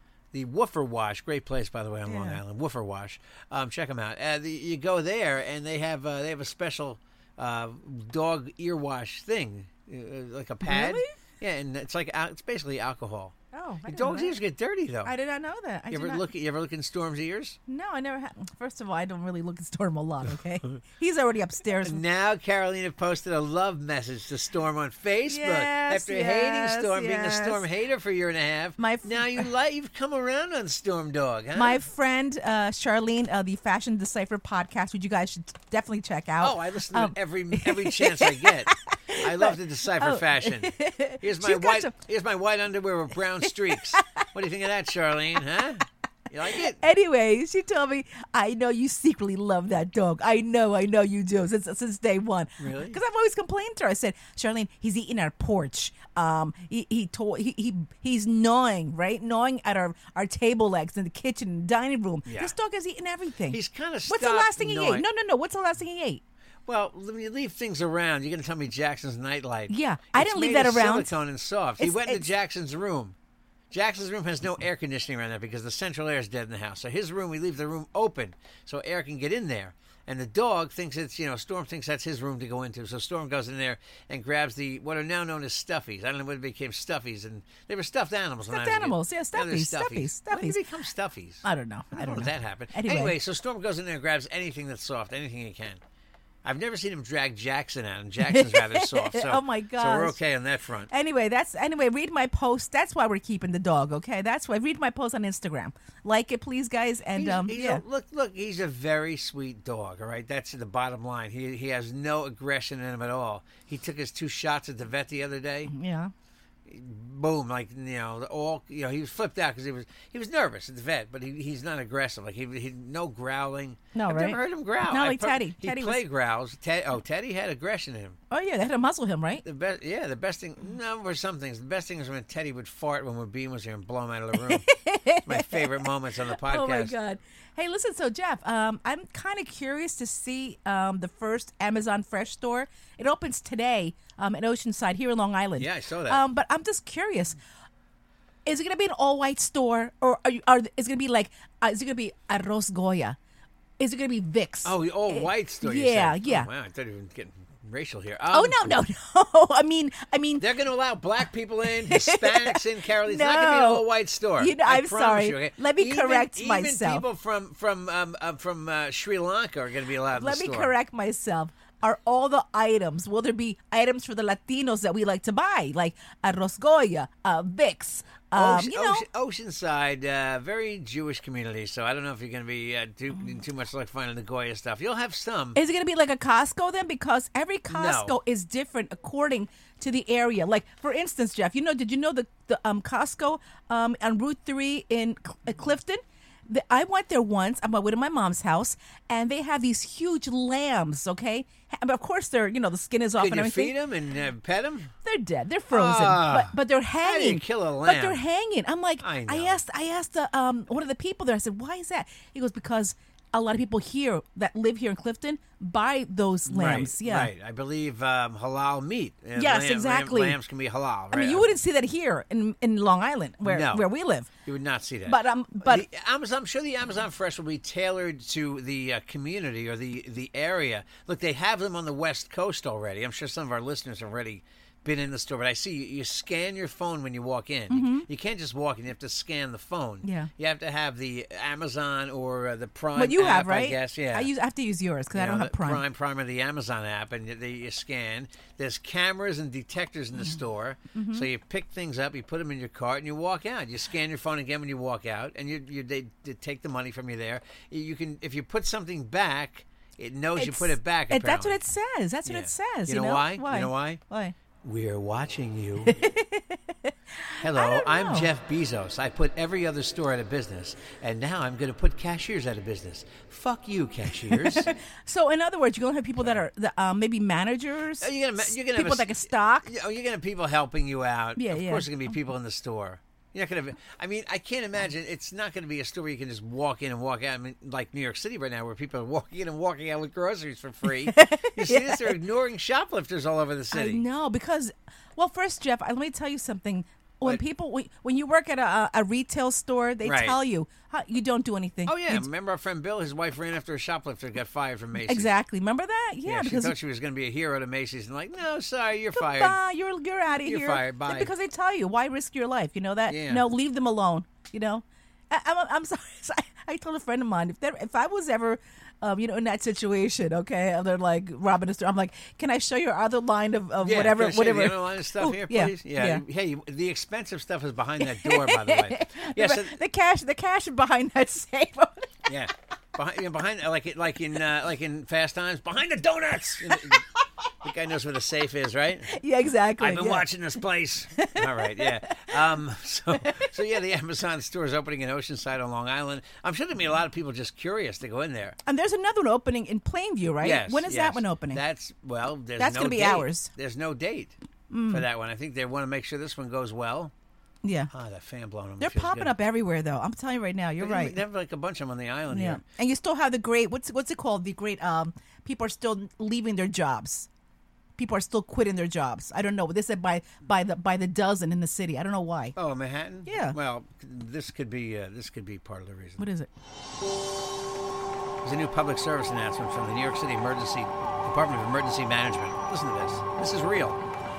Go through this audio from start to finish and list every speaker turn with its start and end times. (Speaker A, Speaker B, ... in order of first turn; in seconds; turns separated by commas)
Speaker A: 0.3-13.3, Speaker B: 2.0-2.4, Speaker B: 10.6-11.1, Speaker B: 13.5-14.4, Speaker A: 13.8-15.1, Speaker B: 15.0-16.2, Speaker A: 15.9-17.6, Speaker B: 17.7-22.0, Speaker A: 21.8-31.8, Speaker B: 25.3-27.6, Speaker B: 28.8-29.5, Speaker B: 31.5-41.9, Speaker A: 36.4-46.8, Speaker B: 43.4-44.2, Speaker B: 46.8-66.2, Speaker A: 52.6-53.0, Speaker A: 62.2-62.5, Speaker A: 63.5-65.0, Speaker A: 66.7-73.1, Speaker B: 69.7-71.1, Speaker B: 71.8-72.3, Speaker A: 73.7-95.8, Speaker B: 88.5-90.6, Speaker B: 91.4-93.2, Speaker A: 96.4-100.9, Speaker B: 98.2-100.2, Speaker B: 100.9-107.8, Speaker A: 107.2-115.7, Speaker B: 115.7-116.1, Speaker A: 116.7-128.2, Speaker B: 123.9-126.0, Speaker B: 128.3-129.4, Speaker A: 129.4-134.7, Speaker B: 134.3-147.4, Speaker A: 135.2-136.9, Speaker A: 145.6-146.2, Speaker B: 148.4-153.2, Speaker B: 153.8-156.5, Speaker A: 154.6-158.8, Speaker B: 158.3-160.4, Speaker A: 160.4-170.7, Speaker B: 161.8-163.8, Speaker B: 164.4-167.0, Speaker B: 170.2-179.0, Speaker A: 178.3-185.6, Speaker B: 185.5-203.7, Speaker A: 187.7-188.2, Speaker A: 203.2-204.9, Speaker B: 205.0-217.3, Speaker A: 205.7-208.2, Speaker A: 209.0-209.6, Speaker A: 216.5-221.5, Speaker B: 219.3-220.4, Speaker B: 221.1-224.3, Speaker A: 223.4-223.9, Speaker A: 224.4-244.3, Speaker B: 225.1-225.8, Speaker B: 237.7-238.1, Speaker B: 240.0-240.3, Speaker B: 242.9-245.8, Speaker A: 245.1-261.6, Speaker B: 250.9-251.3, Speaker B: 260.4-264.3, Speaker A: 262.2-264.0, Speaker A: 264.6-266.0, Speaker B: 265.8-268.3, Speaker A: 267.4-274.7, Speaker B: 274.3-279.7, Speaker A: 278.0-294.0, Speaker B: 281.4-281.9, Speaker B: 291.0-292.2, Speaker B: 293.7-302.2, Speaker A: 300.0-300.4, Speaker A: 301.9-305.3, Speaker B: 305.0-306.7, Speaker A: 306.2-309.6, Speaker B: 309.1-326.2, Speaker A: 310.4-311.3, Speaker A: 313.1-313.4, Speaker A: 323.8-329.8, Speaker B: 328.0-332.1, Speaker A: 332.3-337.0, Speaker A: 337.6-339.1, Speaker B: 339.1-340.3, Speaker A: 339.8-348.6, Speaker B: 341.2-342.3, Speaker B: 343.2-343.5, Speaker B: 348.6-351.6, Speaker A: 350.4-354.3, Speaker B: 352.6-353.5, Speaker B: 354.7-355.0, Speaker A: 354.9-357.1, Speaker B: 357.6-357.9, Speaker A: 357.9-359.3, Speaker B: 358.8-361.2, Speaker A: 360.8-362.6, Speaker B: 362.3-367.3, Speaker B: 368.0-372.5, Speaker A: 372.6-376.2, Speaker B: 373.2-373.6, Speaker B: 376.2-376.5, Speaker A: 378.4-384.0